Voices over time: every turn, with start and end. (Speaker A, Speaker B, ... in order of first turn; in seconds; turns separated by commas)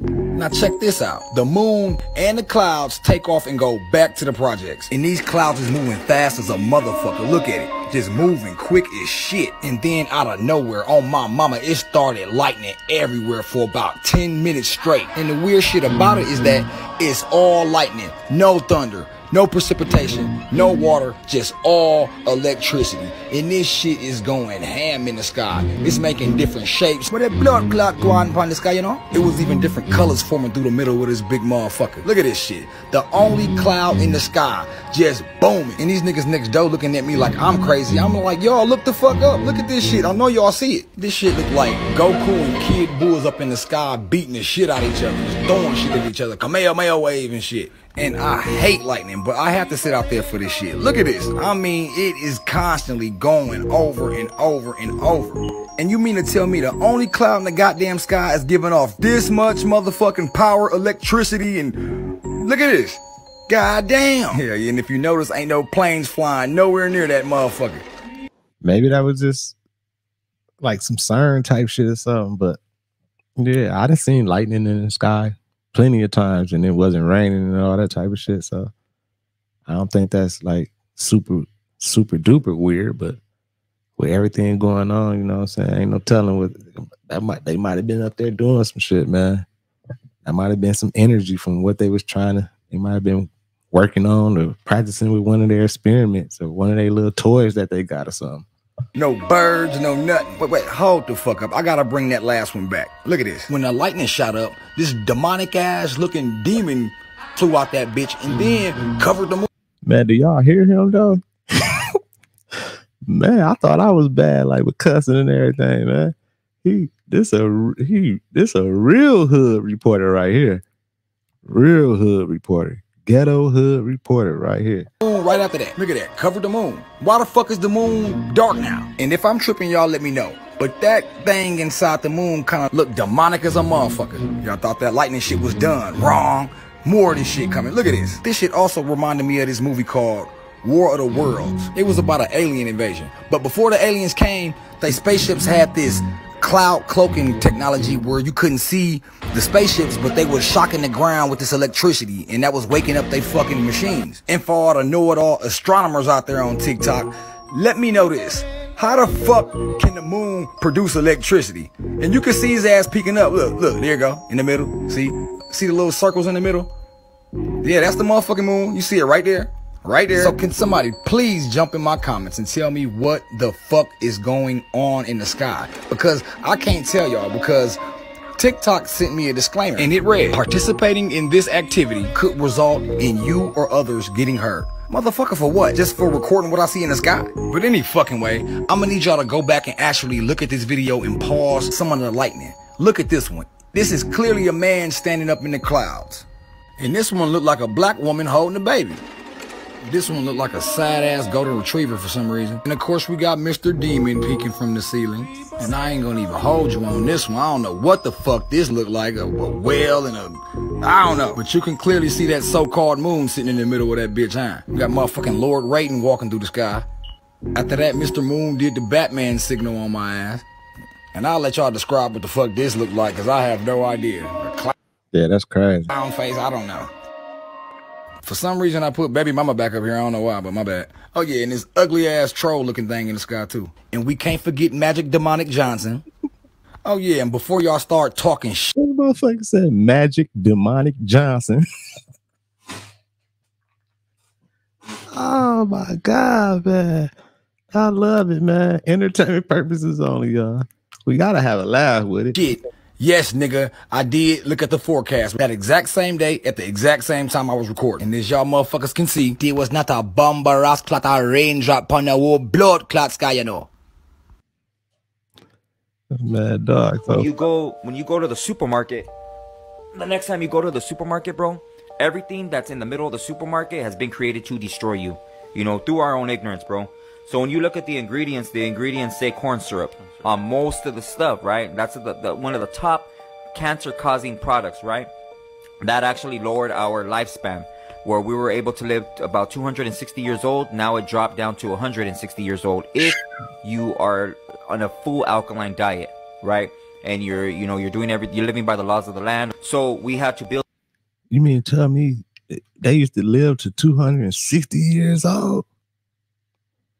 Speaker A: 0.3-61.8, Speaker A: 62.4-67.8, Speaker B: 68.6-69.5, Speaker B: 70.6-72.6, Speaker B: 73.4-78.7, Speaker B: 79.7-83.2, Speaker B: 84.0-89.4, Speaker B: 90.2-98.5, Speaker A: 98.9-109.5, Speaker B: 109.8-111.2, Speaker B: 113.0-120.6, Speaker B: 121.4-124.9, Speaker A: 125.0-166.7, Speaker A: 167.6-177.8, Speaker A: 178.4-196.2, Speaker A: 196.8-199.0, Speaker A: 199.8-216.8, Speaker A: 217.5-220.4, Speaker A: 221.1-224.7, Speaker B: 225.1-225.9, Speaker A: 225.9-226.9, Speaker A: 228.2-236.0, Speaker A: 236.8-238.7, Speaker B: 238.7-241.6, Speaker B: 245.1-247.1, Speaker B: 247.7-252.4, Speaker A: 252.3-263.7, Speaker B: 266.1-267.3, Speaker C: 267.1-269.1, Speaker C: 269.9-285.1, Speaker C: 285.8-300.6, Speaker B: 301.3-305.6